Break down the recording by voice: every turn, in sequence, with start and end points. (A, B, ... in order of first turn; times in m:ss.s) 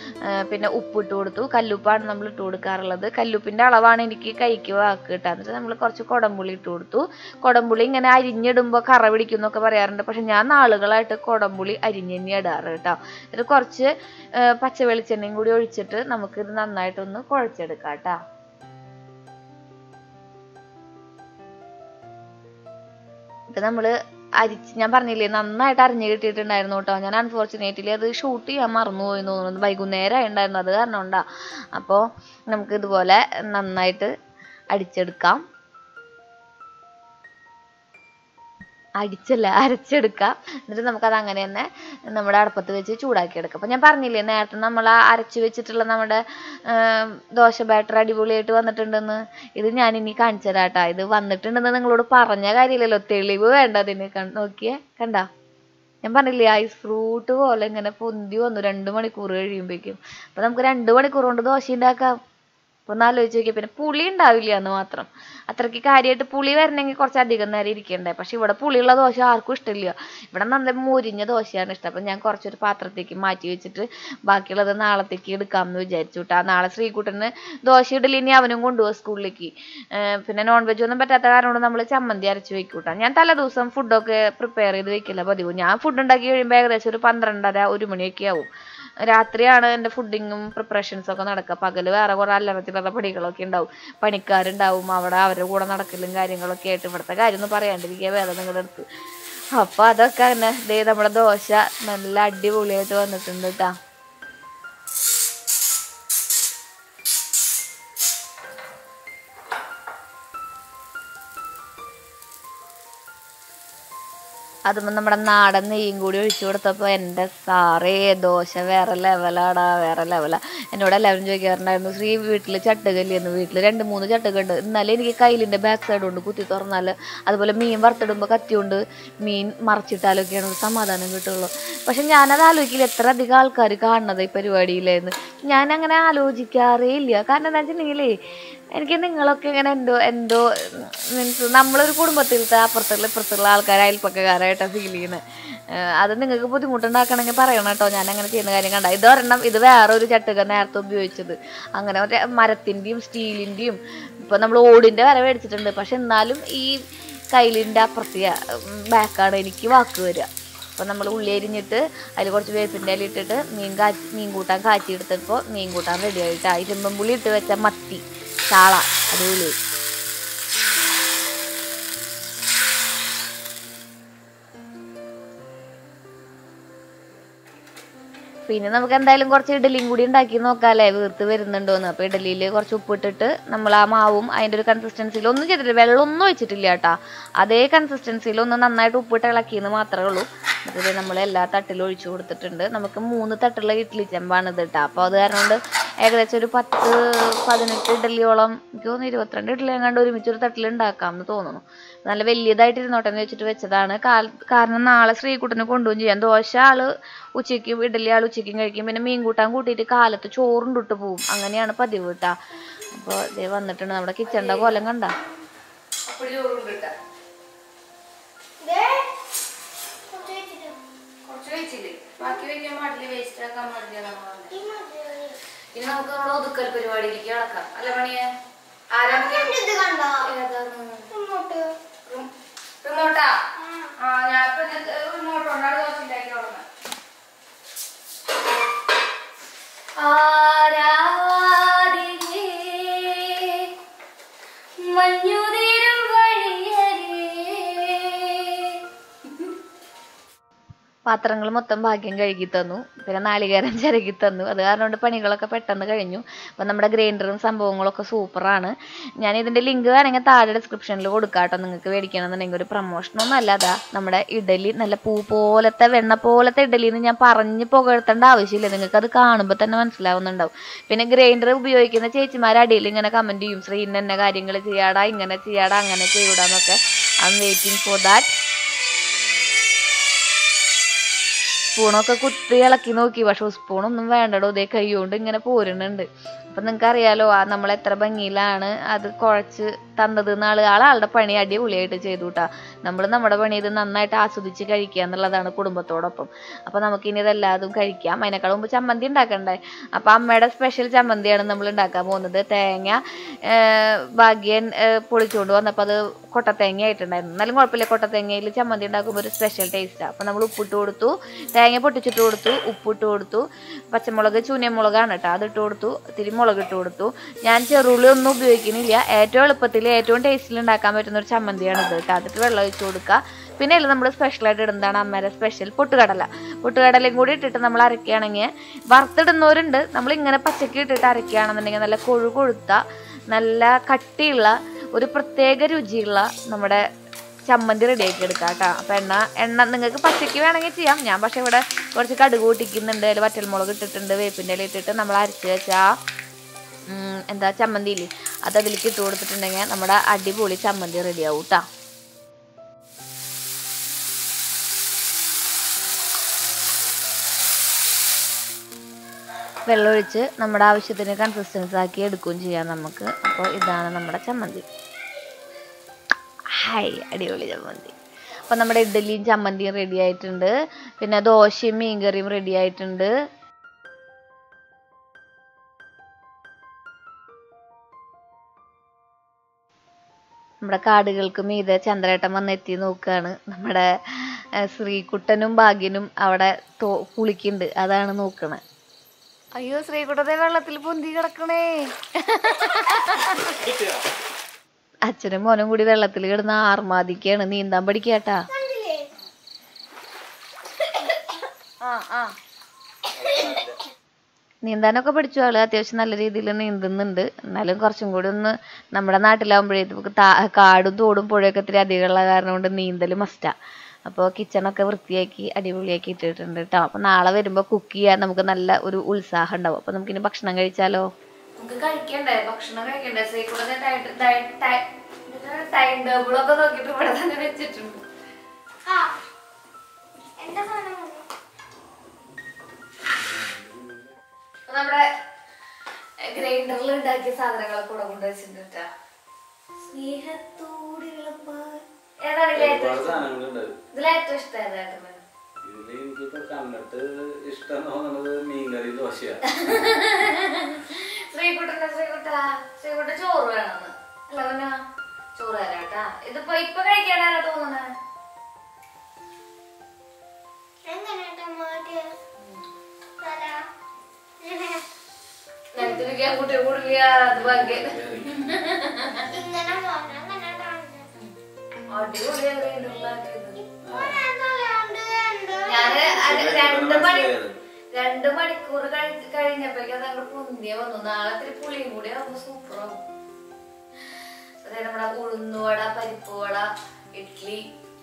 0:00.3-0:13.9 A
0:14.4-0:18.2 A
0:23.5-0:31.2 A
0:31.7-0:34.1 A
0:34.7-0:35.4 A
0:39.0-0:55.3 A
0:56.0-1:02.2 A
1:02.9-1:28.5 A
1:29.0-1:38.8 A
1:39.6-1:43.8 A
1:54.7-2:18.1 A
2:18.7-2:25.2 A
2:26.0-2:36.7 A
2:37.3-2:49.5 A
2:58.5-3:32.3 A
3:32.9-3:35.2 A
3:34.2-3:34.8 B
3:36.1-3:36.9 B
3:38.6-3:39.1 C
3:40.1-3:40.8 C
3:41.2-3:44.5 B
3:44.5-3:45.4 C
3:45.7-3:48.3 B
3:48.9-3:49.6 B
3:49.1-3:50.3 C
3:50.2-3:51.0 B
3:51.1-3:51.7 C
3:52.8-3:53.4 B
3:53.6-3:53.9 C
3:54.0-3:56.6 B
4:00.0-4:03.7 B
4:04.8-4:08.8 B
4:11.1-4:38.3 A
4:41.8-5:36.8 A
5:37.5-5:45.9 A
5:46.9-5:51.6 A
5:59.7-6:04.6 A
6:06.5-6:07.9 A
6:08.4-6:13.1 A
6:20.6-6:28.6 A
6:29.6-6:33.6 A
6:33.6-6:34.0 D
6:35.1-6:38.4 A
6:38.5-6:39.1 C
6:41.8-6:42.3 A
6:43.2-6:43.4 C
6:43.2-6:43.7 D
6:44.6-6:53.5 A
6:54.1-7:01.0 A
7:01.6-7:08.0 A
7:08.8-7:09.1 C
7:10.4-7:11.2 C
7:13.2-7:14.1 D
7:14.7-7:15.0 A
7:16.3-7:18.9 A
7:19.9-7:21.8 B
7:22.2-7:23.2 A
7:22.5-7:23.7 D
7:23.9-7:25.2 A
7:25.6-7:29.8 D
7:29.4-7:34.8 A
7:35.4-7:37.9 A
7:40.8-7:42.1 C
7:43.2-7:43.6 C
7:44.4-7:44.8 C
7:45.7-7:49.3 A
7:47.4-7:48.4 D
7:49.3-7:51.1 C
7:51.9-7:53.6 A
7:53.6-7:56.2 C
7:53.8-7:54.2 D
7:55.6-7:57.3 A
7:56.2-7:57.5 D
7:57.9-8:03.0 A
8:04.6-8:07.6 A